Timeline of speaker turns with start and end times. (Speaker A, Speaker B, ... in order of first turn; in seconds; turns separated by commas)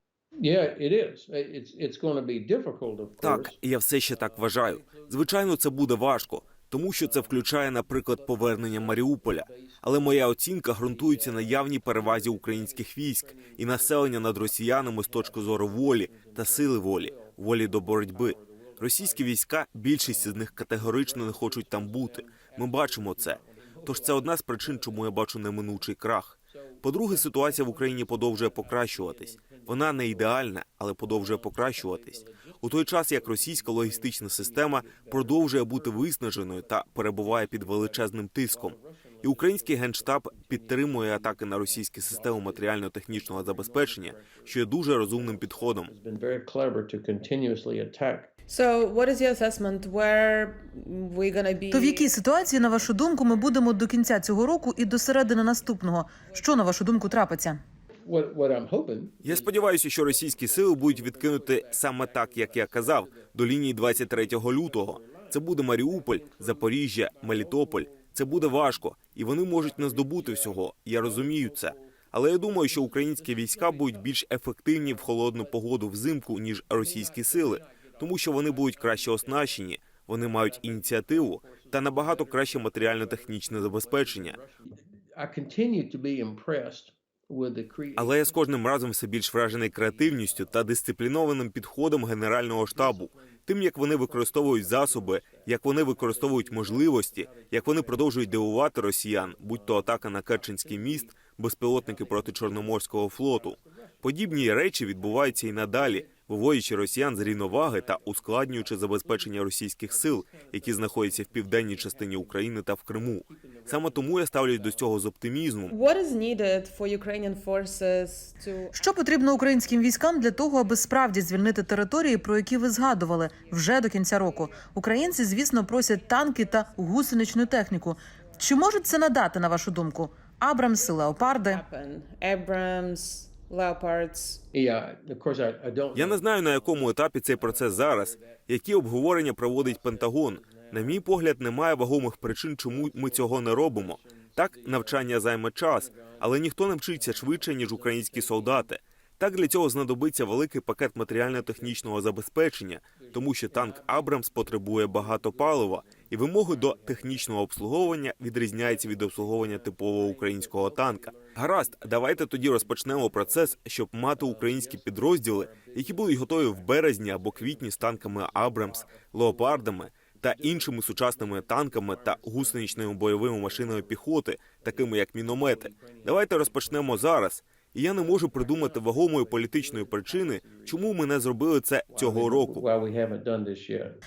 Speaker A: 0.4-3.6, Speaker B: 3.2-45.9, Speaker A: 4.1-10.3, Speaker A: 10.8-19.3, Speaker A: 20.0-25.3, Speaker A: 26.6-30.4, Speaker A: 31.0-48.3, Speaker C: 48.5-52.2, Speaker D: 51.7-57.6, Speaker A: 58.0-74.1, Speaker B: 59.2-84.4, Speaker A: 74.8-75.8, Speaker A: 76.7-88.4, Speaker B: 88.0-115.7, Speaker A: 89.6-90.6, Speaker A: 92.7-93.4, Speaker A: 93.9-98.7, Speaker A: 99.2-101.2, Speaker A: 101.7-114.9, Speaker C: 115.7-118.8, Speaker D: 118.7-131.6, Speaker C: 125.8-126.8, Speaker C: 130.9-134.4, Speaker A: 134.5-136.2, Speaker B: 135.9-182.6, Speaker A: 137.3-138.4, Speaker A: 139.5-141.1, Speaker A: 142.6-148.7, Speaker A: 151.2-152.0, Speaker A: 153.0-163.6, Speaker A: 164.1-174.1, Speaker A: 174.6-177.3, Speaker A: 177.9-181.3, Speaker A: 181.9-184.0